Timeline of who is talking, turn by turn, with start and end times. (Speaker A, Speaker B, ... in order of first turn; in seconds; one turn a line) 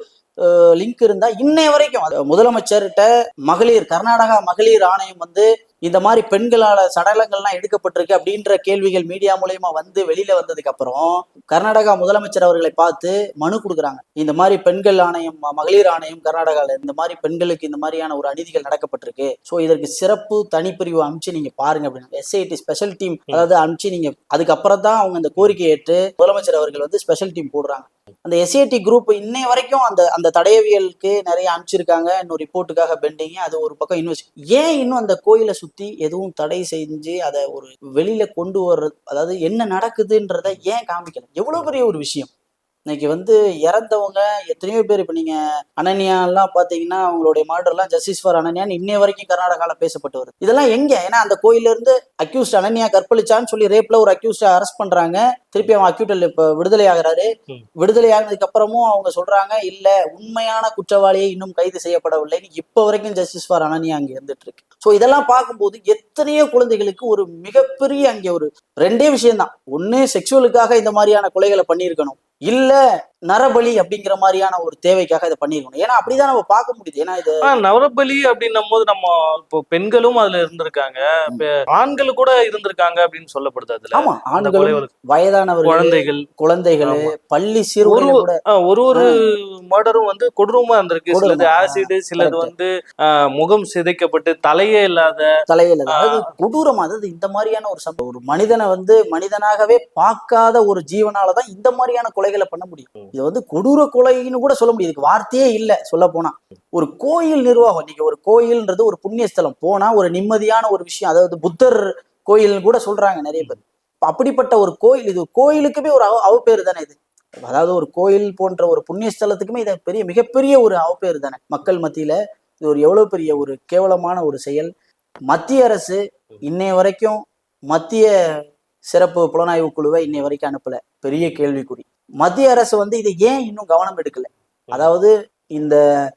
Speaker A: 0.4-42.3
Speaker A: 42.9-57.3
Speaker A: 57.8-77.5
Speaker B: 77.4-84.9
Speaker A: 83.9-88.4
Speaker B: 85.6-86.2
Speaker B: 86.8-87.1
Speaker B: 87.8-95.2
Speaker A: 91.1-92.5
Speaker A: 95.5-124.7
Speaker B: 95.9-96.2
Speaker A: 125.3-127.2
Speaker A: 127.7-128.1
Speaker A: 128.9-135.8